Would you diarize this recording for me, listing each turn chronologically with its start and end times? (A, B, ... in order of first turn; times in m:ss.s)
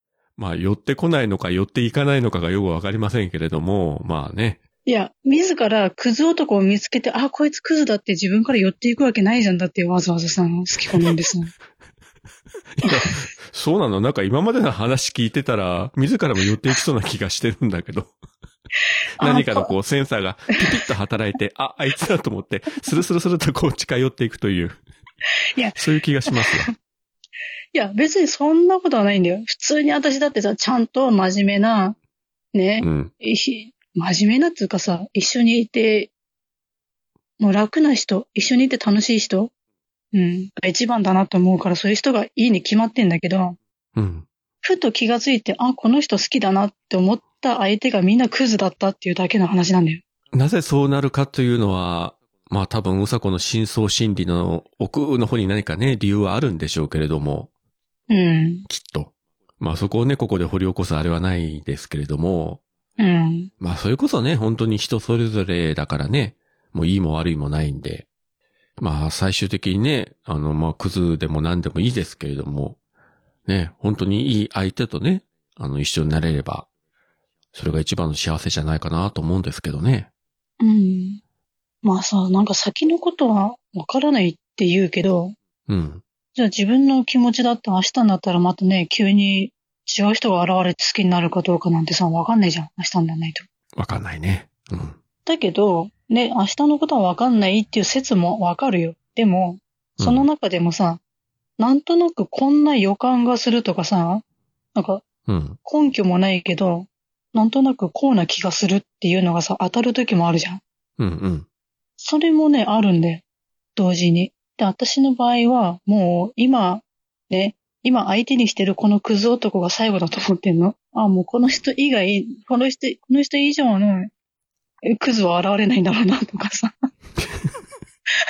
0:00.4-0:04.6 A
0:04.9-0:11.5 B
0:12.8-0:18.1 A
0:19.2-0:19.7 B
0:19.2-0:24.8 A
0:25.8-0:26.7 A
0:26.3-0:26.6 B
0:27.7-0:32.0 B
0:32.5-0:36.1 B
0:32.8-0:33.1 A
0:37.4-0:39.5 B
0:40.1-0:43.6 B
0:44.0-0:44.3 A
0:44.6-0:50.0 B
0:50.3-0:57.5 A
0:58.1-0:58.7 B
0:58.7-1:02.6 A
1:03.0-1:03.5 B
1:03.6-1:08.1 A
1:08.8-1:12.8 A
1:13.5-1:16.7 A
1:17.5-1:20.1 A
1:20.6-1:21.2 B
1:21.8-1:25.4 B
1:25.7-1:26.0 A
1:26.4-1:33.4 B
1:33.8-1:35.0 A
1:35.3-1:41.0 B
1:40.0-1:40.3 A
1:41.6-1:44.2 B
1:44.8-1:45.0 B
1:45.3-1:45.6 A
1:45.6-1:50.6 B
1:51.0-1:51.5 A
1:52.0-1:53.2 B
1:53.8-2:04.1 B
2:04.9-2:06.7 B